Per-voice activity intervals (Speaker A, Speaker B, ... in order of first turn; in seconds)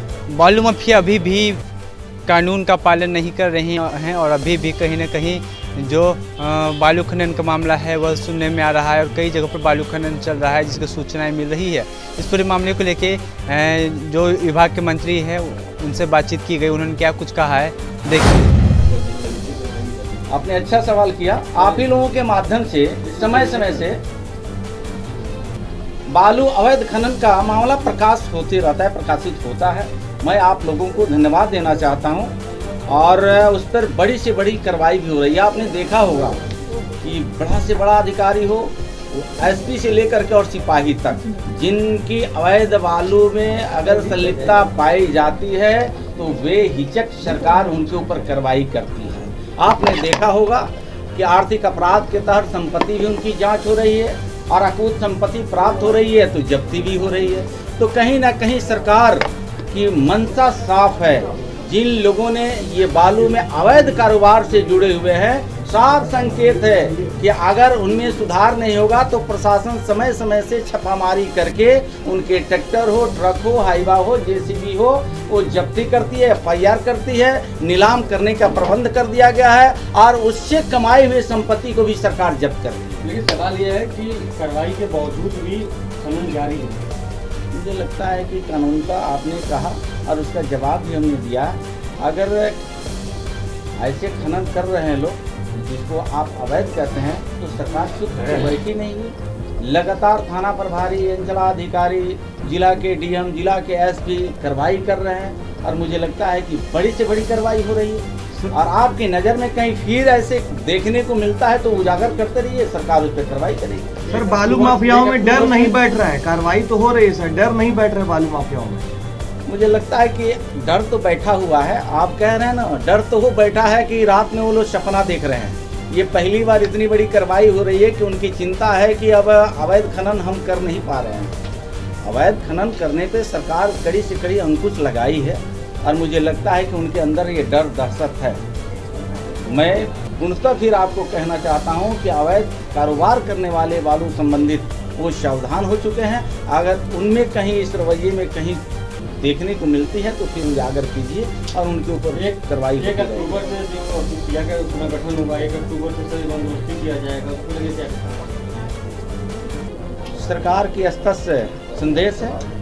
Speaker A: 0.3-1.6, 2.3-18.5
Speaker B: 18.7-20.5, 21.6-21.9, 23.0-23.9, 83.0-86.9, 114.0-115.8, 152.1-158.3
Speaker C: 20.3-24.0, 26.1-32.3, 32.9-36.4, 37.0-83.0, 87.5-92.6, 93.8-114.1, 119.5-131.3, 132.0-138.4, 139.5-148.6, 149.2-153.5, 160.2-162.4
Speaker D: 114.1-118.9